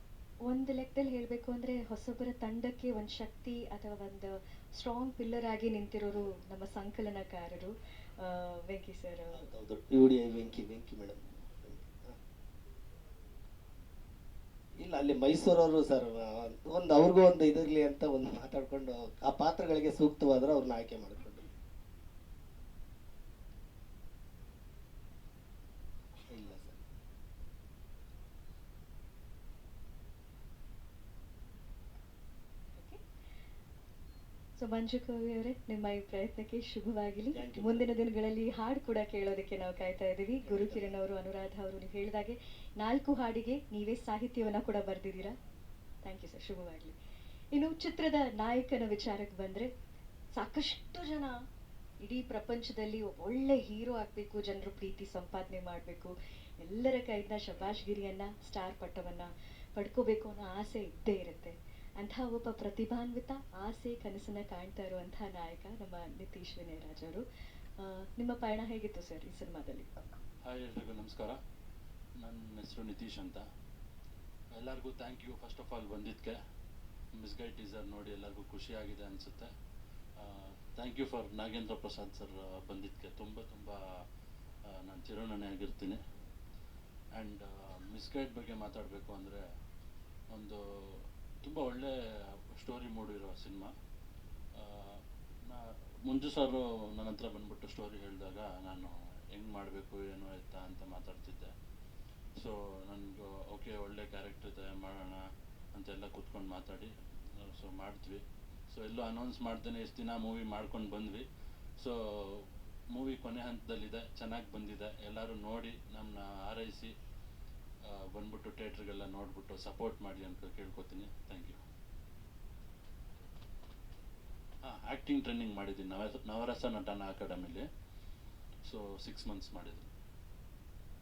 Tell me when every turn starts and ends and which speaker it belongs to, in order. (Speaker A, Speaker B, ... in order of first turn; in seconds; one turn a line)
Speaker A: 0.5-9.4
Speaker B: 9.3-12.2
Speaker B: 14.8-21.5
Speaker B: 26.3-26.8
Speaker A: 32.7-33.0
Speaker A: 34.5-45.3
Speaker B: 37.3-37.9
Speaker B: 40.5-40.9
Speaker A: 46.0-47.0
Speaker A: 47.5-49.7
Speaker A: 50.4-51.3
Speaker A: 52.0-67.2
Speaker A: 67.8-69.9
Speaker C: 70.4-71.4
Speaker C: 72.2-73.4
Speaker C: 74.5-76.4
Speaker C: 77.2-79.5
Speaker C: 80.2-83.8
Speaker C: 84.8-86.0
Speaker C: 87.1-89.4
Speaker C: 90.3-91.9
Speaker C: 92.5-93.7
Speaker C: 94.5-101.5
Speaker C: 102.4-105.2
Speaker C: 105.7-106.9
Speaker C: 107.6-111.2
Speaker C: 111.8-116.9
Speaker C: 117.8-121.6
Speaker C: 124.6-127.6
Speaker C: 128.6-129.9